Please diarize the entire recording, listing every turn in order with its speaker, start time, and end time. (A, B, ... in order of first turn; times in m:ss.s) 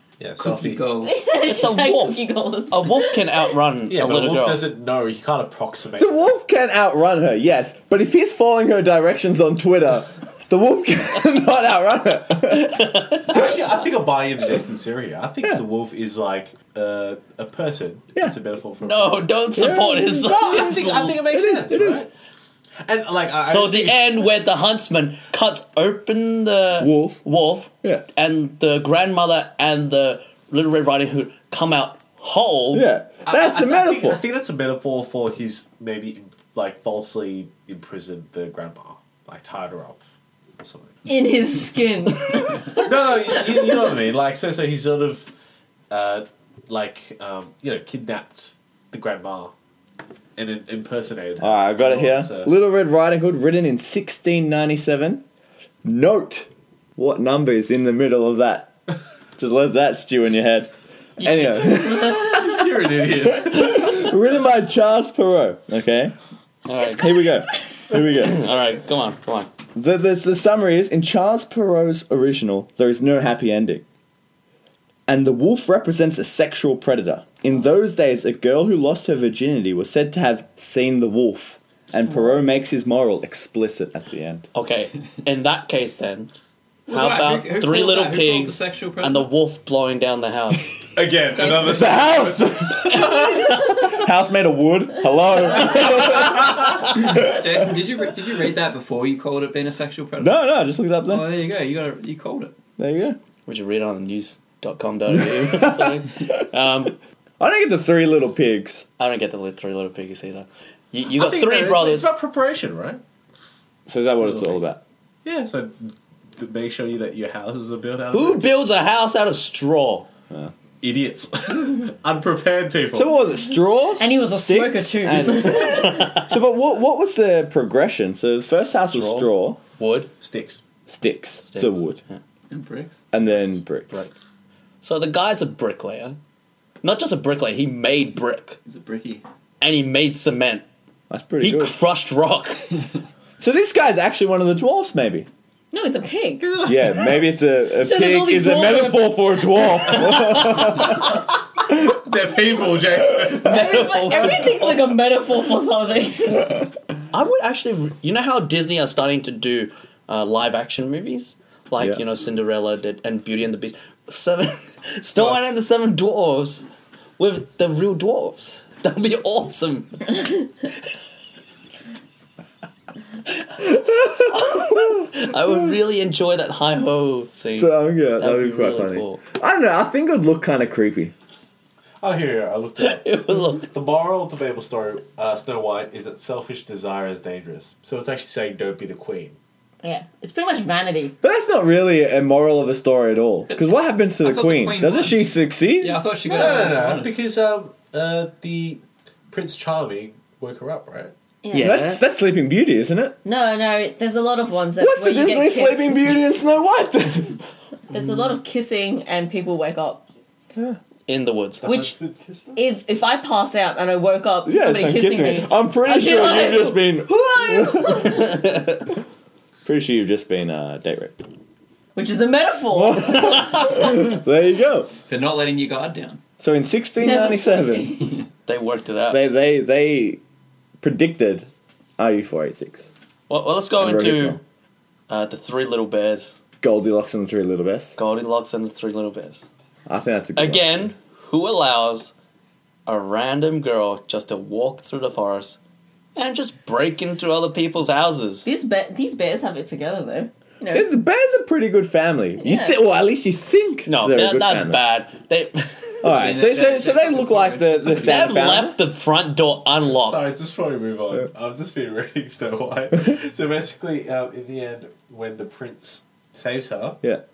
0:00.2-0:00.9 A
0:00.4-0:01.3 B
0:01.0-0:03.4 C
0:01.3-0:04.7 D
0:03.9-0:06.2 A
0:06.0-0:13.4 E
0:12.4-0:13.5 D
0:13.3-0:19.3 A
0:18.8-0:21.2 D
0:19.6-0:22.1 E
0:20.3-0:22.1 A
0:22.8-0:24.3 A
0:23.5-0:32.9 D
0:26.8-0:27.2 E
0:32.7-0:34.2 E
0:33.3-0:40.0 A
0:40.6-0:41.0 A
0:41.1-0:43.9 C
0:42.7-0:45.3 A
0:45.9-0:49.5 A
0:50.4-0:52.5 A
0:51.4-0:55.2 E
0:55.8-0:58.7 E
0:59.4-1:02.6 E
1:01.7-1:04.1 A
1:03.3-1:06.1 E
1:06.7-1:07.3 D
1:06.8-1:07.9 C
1:06.9-1:08.5 E
1:08.2-1:09.5 D
1:09.8-1:13.8 E
1:15.1-1:24.5 E
1:24.5-1:26.3 D
1:26.9-1:29.3 B
1:26.9-1:30.7 D
1:31.0-1:33.3 A
1:31.5-1:37.6 E
1:33.1-1:33.5 D
1:36.9-1:40.4 B
1:40.2-1:41.3 E
1:41.0-1:42.5 B
1:42.8-1:43.2 E
1:43.5-1:47.0 D
1:45.1-1:46.5 E
1:47.4-1:48.8 E
1:49.0-1:52.1 D
1:51.1-1:53.0 A
1:53.9-1:54.8 E
1:54.2-1:54.6 A
1:55.2-1:58.5 A
1:58.1-2:00.1 D
2:00.8-2:03.2 A
2:02.9-2:09.6 E
2:04.0-2:06.1 C
2:05.5-2:06.3 D
2:08.8-2:10.1 D
2:10.2-2:10.6 A
2:10.9-2:12.0 E
2:11.4-2:12.2 D
2:12.5-2:13.1 B
2:13.1-2:14.1 E
2:13.2-2:14.1 A
2:14.8-2:16.2 D
2:16.8-2:18.6 D
2:18.7-2:19.2 B
2:19.6-2:20.6 D
2:21.1-2:21.8 E
2:21.4-2:22.7 D
2:23.4-2:25.3 E
2:25.7-2:26.9 C
2:26.6-2:31.1 E
2:27.8-2:29.6 C
2:29.9-2:31.0 D
2:31.7-2:34.0 A
2:33.3-2:34.9 D
2:33.4-2:36.7 C
2:37.1-2:46.6 D
2:47.2-2:50.7 D
2:53.6-2:59.2 D
2:53.6-2:54.5 E
2:57.5-3:01.1 E
3:02.0-3:09.4 A
3:02.8-3:03.7 D
3:09.8-3:11.2 C
3:11.2-3:16.1 E
3:13.5-3:17.2 B
3:16.2-3:21.1 A
3:16.3-3:16.7 C
3:21.4-3:22.0 C
3:21.5-3:21.8 D
3:21.5-3:23.2 E
3:23.2-3:26.2 C
3:24.8-3:27.4 E
3:27.9-3:30.0 C
3:31.1-3:31.7 D
3:31.6-3:32.5 A
3:31.6-3:31.9 C
3:32.6-3:38.4 C
3:34.4-3:38.2 E
3:38.3-3:38.8 D
3:39.6-3:41.2 E
3:42.0-3:43.8 C
3:42.7-3:44.9 E
3:45.1-3:46.2 B
3:46.4-3:48.1 E
3:47.0-3:48.2 C
3:48.5-3:49.2 D
3:49.1-3:50.2 E
3:50.8-3:52.9 E
3:53.3-3:54.4 D
3:53.8-3:54.4 E
3:55.1-3:56.4 D
3:56.6-3:58.0 E
3:58.0-3:59.4 D
3:59.9-4:00.9 E
4:00.4-4:02.1 D
4:02.9-4:05.6 D
4:06.2-4:08.5 D
4:08.4-4:10.9 C
4:10.7-4:14.8 E
4:12.4-4:12.8 C
4:13.9-4:16.1 D
4:16.0-4:18.8 E
4:16.0-4:18.4 B
4:17.9-4:20.3 D
4:19.8-4:27.0 A